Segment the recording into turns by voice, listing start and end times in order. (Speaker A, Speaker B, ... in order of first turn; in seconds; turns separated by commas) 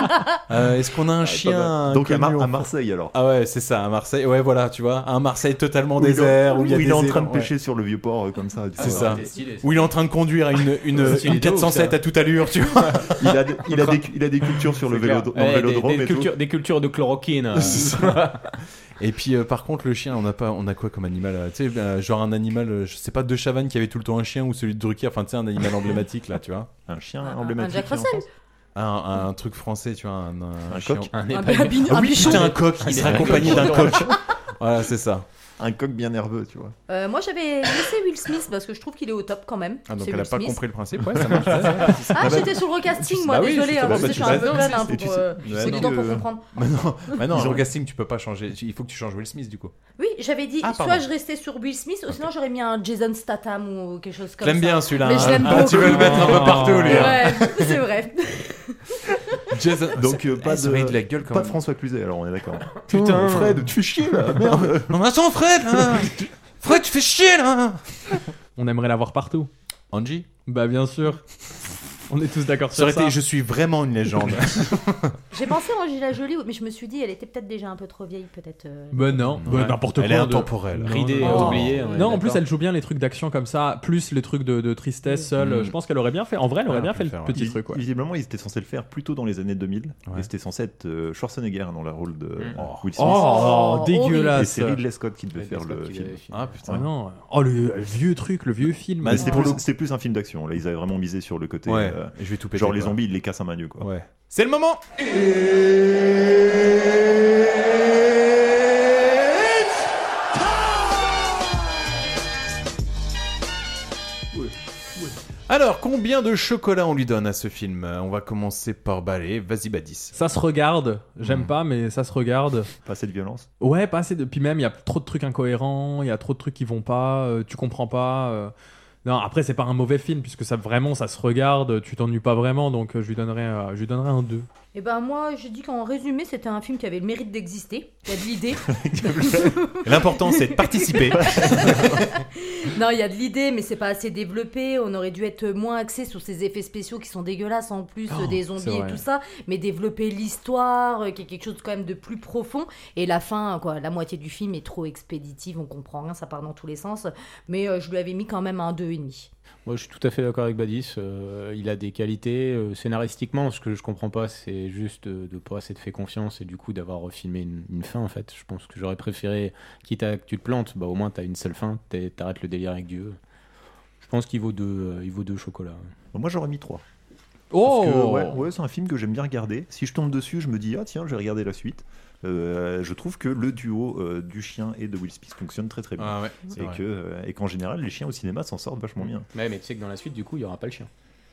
Speaker A: 0.5-7.5, Speaker B: 1.3-1.7, Speaker C: 1.4-3.1, Speaker C: 6.0-9.2, Speaker B: 8.8-9.9, Speaker A: 8.8-13.4, Speaker B: 10.9-12.0, Speaker B: 12.8-13.1, Speaker C: 13.2-16.3, Speaker B: 14.7-18.5, Speaker A: 17.6-18.2, Speaker A: 19.0-26.7, Speaker C: 26.9-28.2, Speaker D: 27.2-28.3, Speaker A: 28.8-35.3, Speaker C: 30.7-31.1, Speaker B: 31.1-34.1, Speaker D: 31.3-34.2, Speaker C: 35.6-36.8, Speaker D: 36.9-40.6, Speaker A: 39.9-42.5, Speaker D: 41.3-46.4, Speaker C: 42.1-42.6, Speaker A: 43.1-49.7, Speaker C: 43.8-46.3, Speaker C: 47.2-47.7, Speaker D: 50.0-59.1, Speaker A: 50.6-51.0, Speaker A: 54.4-57.8, Speaker C: 55.2-57.1, Speaker E: 55.9-57.1, Speaker A: 59.5-61.6, Speaker C: 59.8-65.0, Speaker B: 62.9-63.6, Speaker A: 64.3-68.2, Speaker C: 65.7-66.3, Speaker E: 68.6-69.5, Speaker A: 69.9-70.3, Speaker E: 70.5-71.2, Speaker E: 72.1-73.2, Speaker A: 72.7-75.2, Speaker D: 75.3-79.6, Speaker E: 78.9-87.8, Speaker A: 79.4-81.9, Speaker B: 80.8-82.4, Speaker D: 81.2-82.1, Speaker A: 85.4-85.8, Speaker A: 86.7-87.4, Speaker C: 87.3-96.9, Speaker A: 92.6-92.9, Speaker E: 93.0-94.8, Speaker D: 93.0-94.5, Speaker B: 95.4-96.6, Speaker A: 96.3-96.7, Speaker E: 96.7-99.6, Speaker C: 99.0-103.9, Speaker D: 99.2-99.5, Speaker A: 101.7-103.0, Speaker A: 103.8-104.8, Speaker A: 115.5-120.1, Speaker E: 120.2-122.7, Speaker C: 122.8-123.5, Speaker E: 123.6-128.5, Speaker E: 129.1-134.5, Speaker D: 134.7-159.3, Speaker C: 138.7-139.7, Speaker A: 139.8-142.0, Speaker C: 141.1-142.1, Speaker E: 148.1-149.0, Speaker B: 159.7-173.2, Speaker B: 174.0-175.9, Speaker C: 176.1-176.8, Speaker E: 177.5-178.4, Speaker C: 177.6-189.3, Speaker A: 186.0-186.8, Speaker B: 189.3-190.9